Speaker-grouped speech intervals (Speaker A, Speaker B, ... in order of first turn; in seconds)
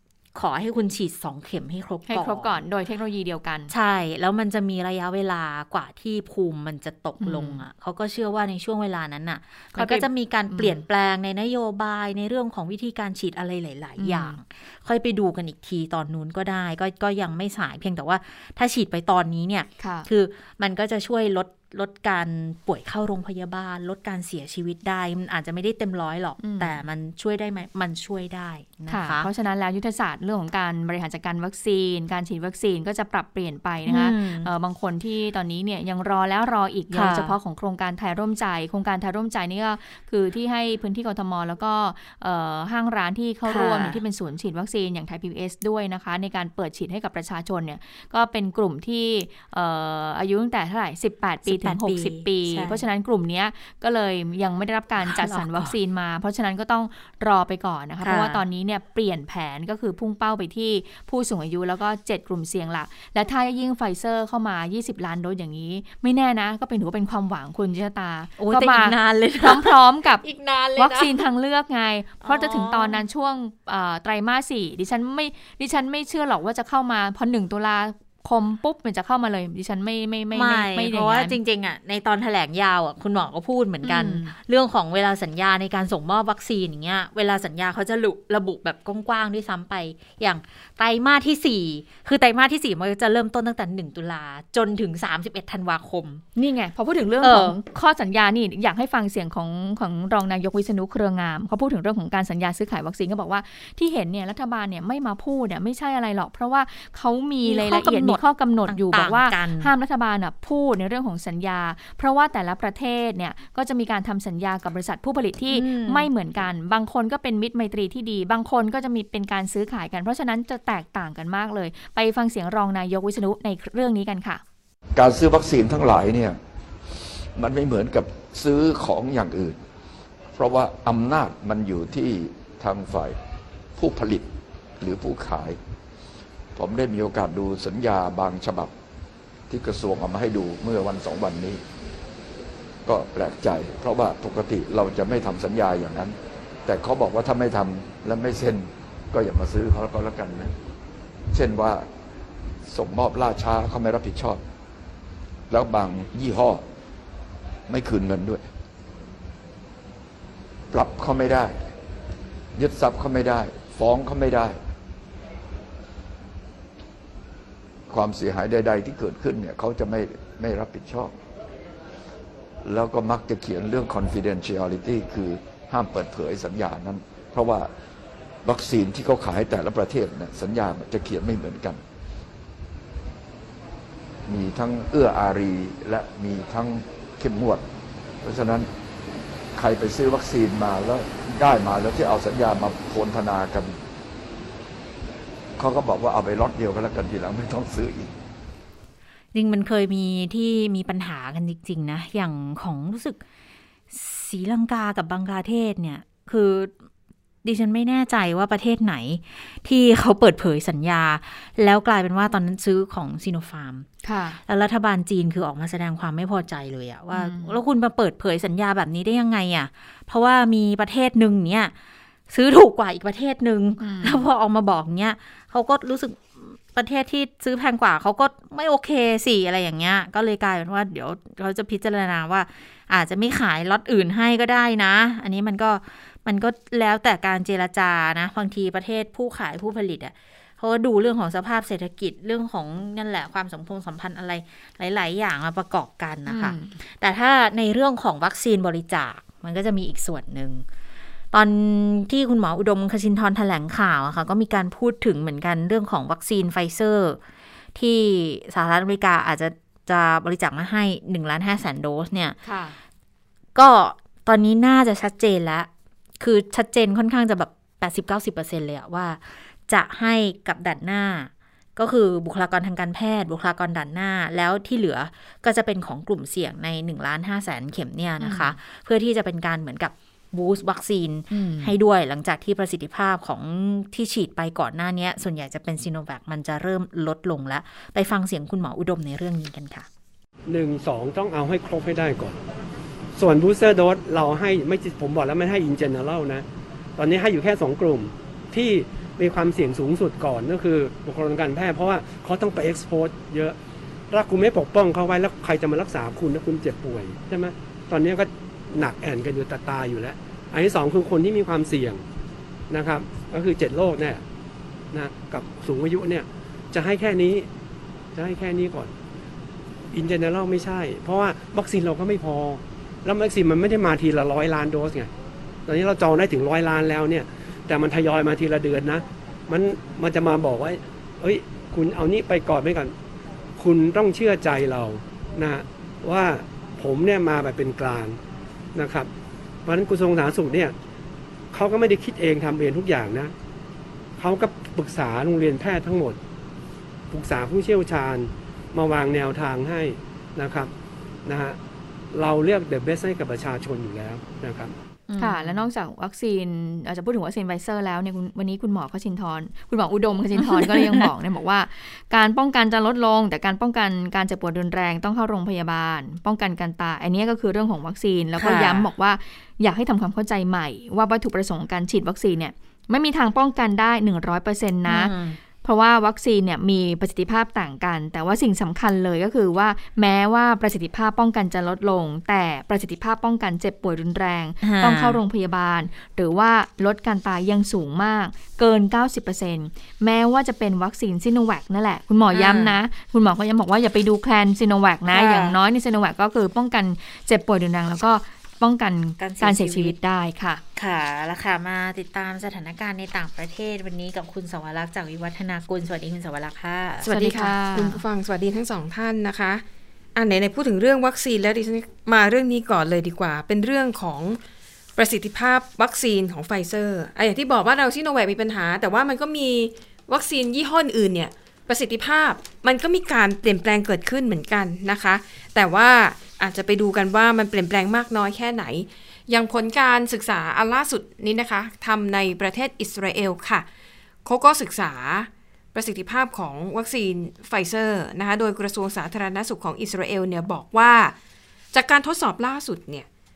Speaker A: 0.3-2.6, 3.7-29.3, 33.9-34.5, 36.9-37.4, 43.5-44.0, 51.5-52.8, 55.0-55.8, 58.0-58.4, 68.4-71.2, 72.2-73.0, 80.3-96.2, 97.2-97.6, 107.5-109.7, 115.5-116.1, 199.3-203.2, 203.9-206.7, 207.4-213.9, 214.5-221.7, 222.3-250.6, 251.3-257.2, 257.8-262.4, 263.6-265.7, 266.2-289.9, 355.1-355.7, 360.4-361.1, 368.4-368.9, 374.9-375.4, 384.6-385.2, 392.3-392.8, 395.1-395.6, 399.2-399.9, 400.8-407.5
Speaker B: 2.1-3.7, 7.2-7.6, 9.8-10.8, 14.0-14.4, 19.8-20.1, 26.4-26.7, 28.9-70.2, 70.8-81.4, 83.8-84.3, 96.4-124.4, 214.0-214.4, 217.1-217.6, 223.8-224.2, 246.3-246.8, 262.4-262.8, 278.2-278.6, 281.3-281.7, 355.2-400.6, 407.1-408.0
Speaker C: 125.0-126.4, 127.4-129.6, 130.3-133.2, 133.8-135.6, 136.6-138.7, 139.5-141.6, 142.9-150.6, 151.3-151.9, 152.7-154.4, 155.5-156.6, 157.7-158.5, 160.7-161.6, 162.6-164.6, 167.9-171.1, 172.7-177.7, 178.4-181.8, 184.3-187.7, 188.2-188.7, 189.6-193.8, 195.6-198.1
Speaker D: 290.5-292.4, 293.2-296.4, 297.0-303.6, 304.1-312.0, 312.7-314.2, 314.9-317.5, 318.1-318.9, 319.9-325.1, 325.7-332.9, 333.6-338.2, 338.8-339.1, 339.6-340.7, 341.5-343.3, 344.2-346.2, 347.1-350.7, 351.3-351.6, 352.1-354.7
Speaker E: 407.1-409.6, 410.1-414.4, 415.0-433.7, 434.2-441.2, 441.7-443.1